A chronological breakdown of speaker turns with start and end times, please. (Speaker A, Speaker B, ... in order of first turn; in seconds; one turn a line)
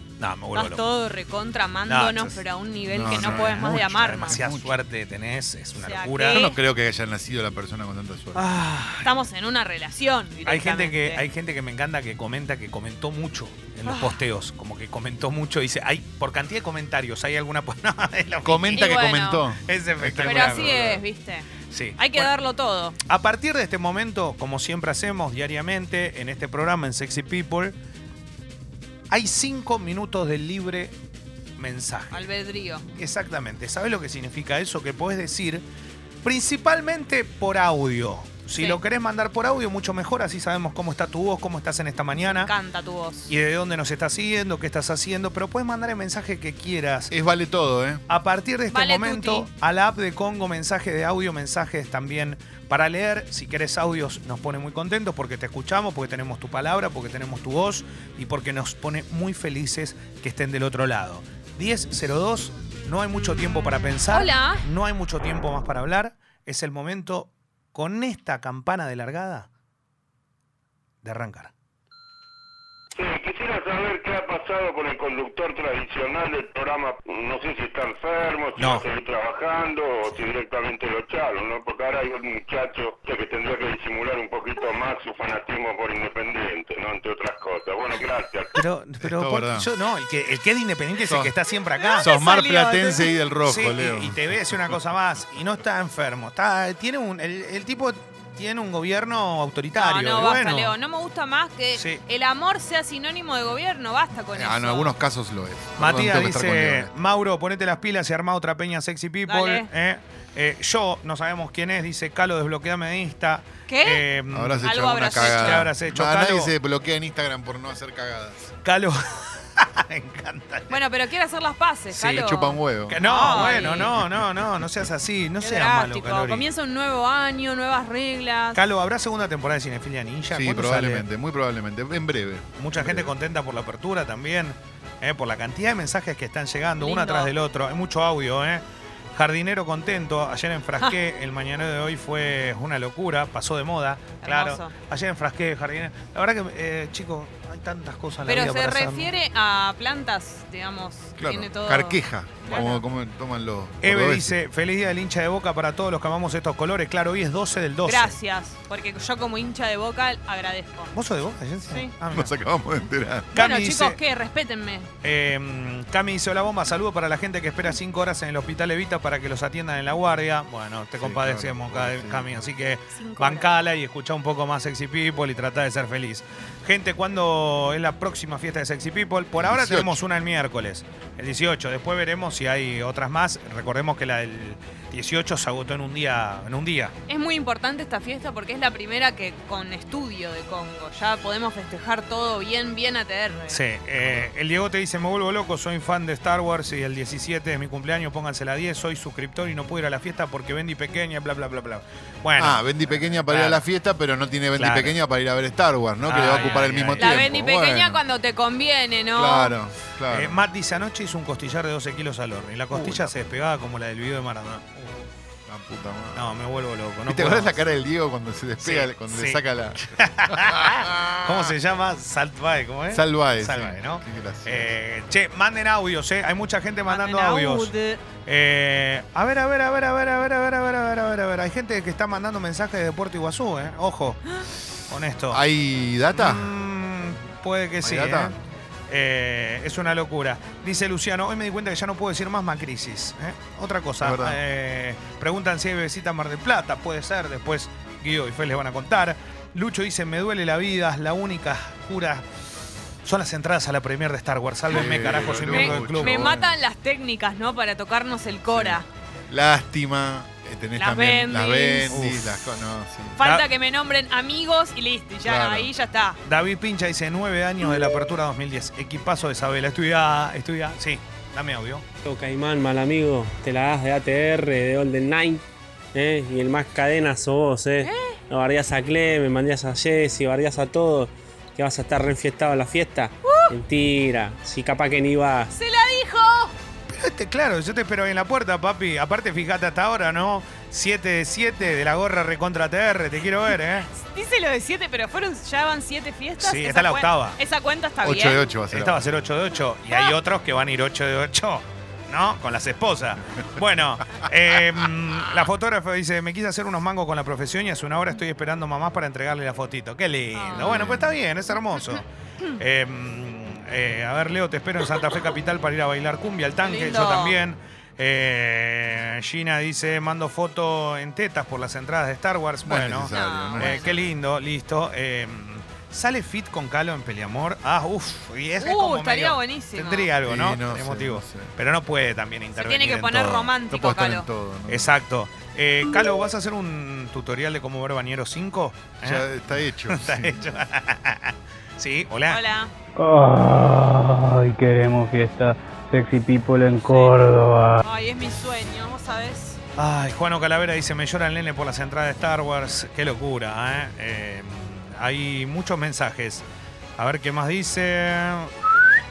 Speaker A: 0.2-0.8
Speaker B: 0.5-4.4
Speaker A: 1.9-2.4
Speaker C: 2.9-4.7
Speaker A: 3.1-6.4
Speaker B: 5.8-6.5
Speaker C: 6.3-8.5
Speaker A: 8.3-9.1
Speaker B: 9.0-11.2
Speaker A: 10.4-18.9
Speaker B: 13.8-14.2
Speaker C: 18.4-20.8
Speaker B: 18.8-19.4
Speaker A: 19.6-21.0
Speaker B: 20.2-23.0
Speaker A: 21.7-22.3
Speaker A: 23.0-27.7
Speaker A: 29.1-30.9
Speaker A: 31.6-32.2
Speaker B: 32.1-32.8
Speaker A: 33.0-35.6
Speaker A: 36.2-42.5
Speaker B: 42.2-43.3
Speaker A: 43.3-47.1
Speaker C: 47.1-48.0
Speaker A: 48.1-69.5
Speaker B: 48.7-49.5
Speaker B: 64.1-64.6
Speaker A: 71.0-71.5
Speaker D: 72.9-88.5
Speaker A: 78.6-78.8
Speaker A: 88.5-92.1
Speaker C: 89.0-89.7
Speaker C: 91.0-91.3
Speaker B: 91.8-93.1
Speaker C: 92.0-94.8
Speaker A: 93.4-100.7
Speaker B: 99.7-104.9
Speaker A: 101.8-102.0
Speaker C: 104.3-106.9
Speaker A: 105.8-116.5
Speaker B: 109.3-109.7
Speaker B: 113.7-114.1
Speaker C: 114.3-118.5
Speaker B: 114.6-115.7
Speaker A: 118.6-120.8
Speaker B: 120.7-123.9
Speaker C: 121.9-123.0
Speaker A: 122.9-126.4
Speaker C: 123.6-124.9
Speaker B: 125.4-128.6
Speaker A: 128.5-131.1
Speaker C: 130.3-133.1
Speaker A: 132.6-149.1
Speaker B: 136.8-137.3
Speaker B: 144.2-144.7
Speaker B: 148.3-152.8
Speaker C: 151.2-154.3
Speaker A: 153.8-158.2
Speaker B: 157.8-160.9
Speaker A: 160.9-162.3
Speaker C: 162.1-163.3
Speaker A: 163.3-164.0
Speaker B: 163.3-164.9
Speaker A: 165.0-186.9
Speaker C: 171.0-172.3
Speaker B: 172.9-173.5
Speaker C: 179.3-180.0
Speaker B: 187.1-193.6
Speaker A: 193.5-203.6
Speaker C: 194.0-194.3
Speaker C: 202.4-208.0
Speaker A: 204.5-205.0
Speaker A: 206.0-207.2
Speaker B: 206.9-209.5
Speaker C: 209.1-210.4
Speaker A: 210.1-215.0
Speaker C: 212.7-213.2
Speaker C: 215.5-216.3
Speaker A: 216.1-217.6
Speaker C: 217.1-221.5
Speaker A: 218.6-234.2
Speaker C: 222.9-224.8
Speaker B: 226.9-228.0
Speaker A: 234.9-235.4
Speaker C: 235.3-236.5
Speaker A: 236.1-238.3
Speaker C: 237.8-238.3
Speaker A: 238.9-252.2
Speaker C: 244.0-244.4
Speaker A: 253.0-256.3
Speaker C: 254.7-256.5
Speaker B: 255.5-258.9
Speaker C: 258.5-263.2
Speaker B: 260.8-261.9
Speaker A: 261.9-262.3
Speaker B: 263.2-266.2
Speaker A: 263.2-263.4
Speaker C: 265.2-265.7
Speaker A: 266.2-271.8
Speaker E: 272.0-275.4
Speaker E: 275.9-285.5
Speaker B: 277.8-278.2
Speaker B: 283.2-283.6
Speaker B: 285.5-286.5
Speaker A: 286.9-293.9
Speaker B: 293.9-298.4
Speaker A: 296.4-297.4
Speaker C: 298.0-299.1
Speaker A: 298.7-312.0
Speaker C: 304.1-305.4
Speaker B: 310.3-311.0
Speaker C: 310.6-311.0
Speaker A: 312.6-333.5
Speaker B: 316.6-317.4
Speaker C: 322.6-323.9
Speaker B: 323.1-324.0
Speaker B: 328.6-330.1
Speaker C: 330.2-331.5
Speaker B: 332.5-334.3
Speaker C: 333.7-334.9
Speaker A: 334.7-339.2
Speaker C: 339.0-340.4
Speaker A: 339.9-342.4
Speaker B: 342.3-342.7
Speaker F: 342.9-347.8
Speaker B: 346.8-347.1
Speaker B: 347.8-349.6
Speaker A: 349.8-356.4
Speaker A: 357.0-358.9